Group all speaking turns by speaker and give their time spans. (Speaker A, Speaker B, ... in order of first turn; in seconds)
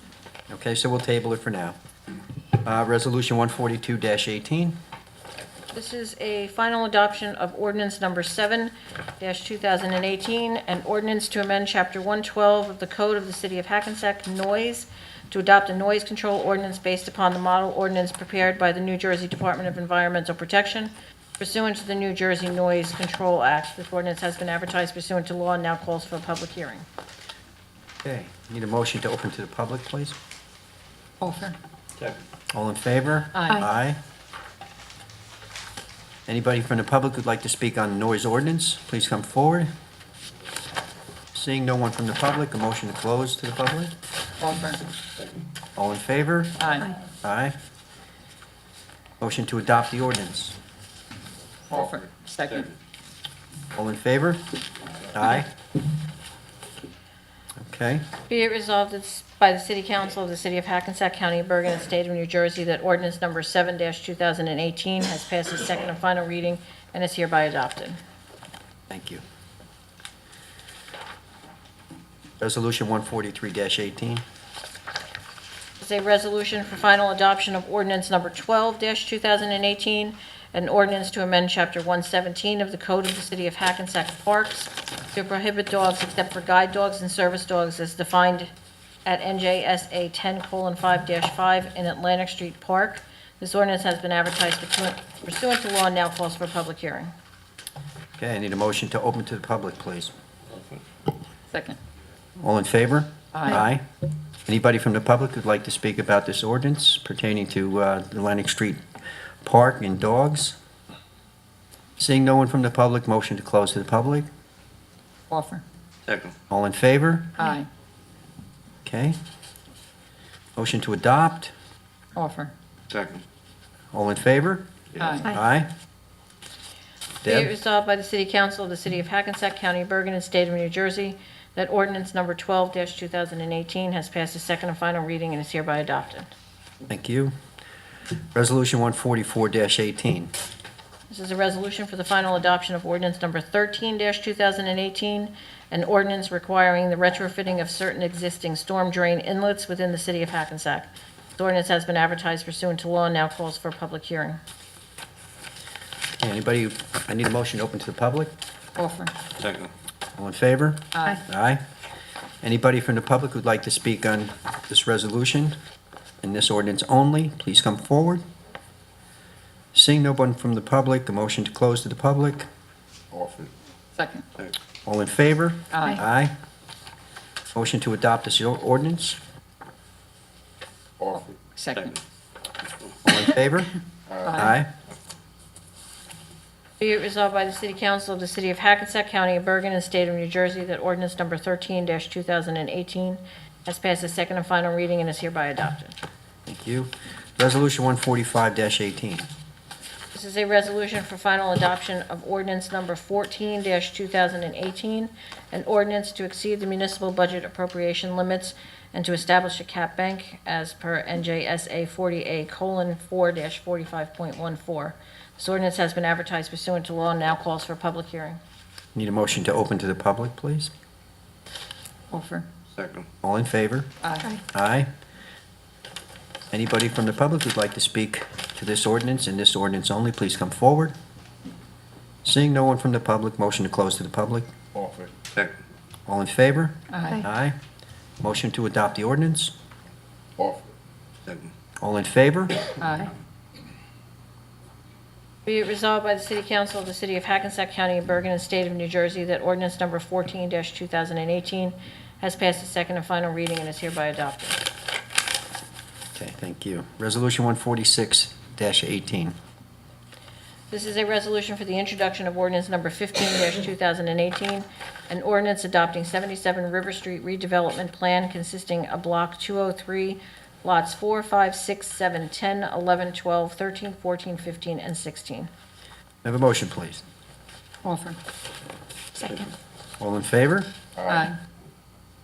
Speaker A: 0.5-1.8, 2.6-4.8, 28.0-30.2, 32.5-34.0, 36.3-39.7, 41.3-43.9, 45.8-46.6, 47.2-47.5, 49.2-50.6, 53.8-54.5, 55.1-55.5, 57.6-58.1, 68.9-69.2, 72.4-74.2, 98.2-100.1, 102.4-103.9, 104.5-108.8, 109.4-110.6, 112.0-114.3, 116.5-117.4, 118.8-119.2, 120.6-121.5, 123.9-125.7, 127.2-127.5, 136.9-137.3, 138.3-140.3, 156.2-158.3, 160.2-161.6, 162.4-165.6, 166.2-168.2, 169.7-172.5, 174.9-176.3, 177.5-179.2, 183.0-183.8, 184.3-184.7, 196.5-199.3, 218.9-220.7, 223.2-223.9, 224.4-224.9, 226.5-230.9, 232.2-234.5, 236.1-237.6, 238.2-239.5, 241.8-242.7, 256.2-259.4, 276.2-277.0, 280.0-280.7
Speaker B: 5.7-26.9, 58.3-68.0, 75.8-88.5, 89.1-97.1, 127.3-136.3, 141.1-154.4, 186.8-195.9, 200.1-218.4, 245.5-254.7, 260.7-275.5
Speaker C: 31.2-31.6, 33.4-33.7, 44.4-44.9, 46.6-47.0, 51.7-52.7, 101.5-101.8, 103.3-103.6, 115.3-115.6, 117.4-117.7, 122.2-122.5, 125.0-125.3, 158.8-159.1, 160.9-161.2, 173.9-174.3, 175.7-176.0, 181.6-182.0, 184.3-184.6, 222.1-222.5, 224.0-224.3, 236.9-237.2, 242.8-243.1, 277.8-278.2, 281.1-281.4
Speaker D: 116.1-116.3, 122.9-123.2, 159.4-159.7, 173.1-173.5, 181.0-181.4, 222.8-223.1, 234.8-235.5, 240.4-240.7, 281.0-281.3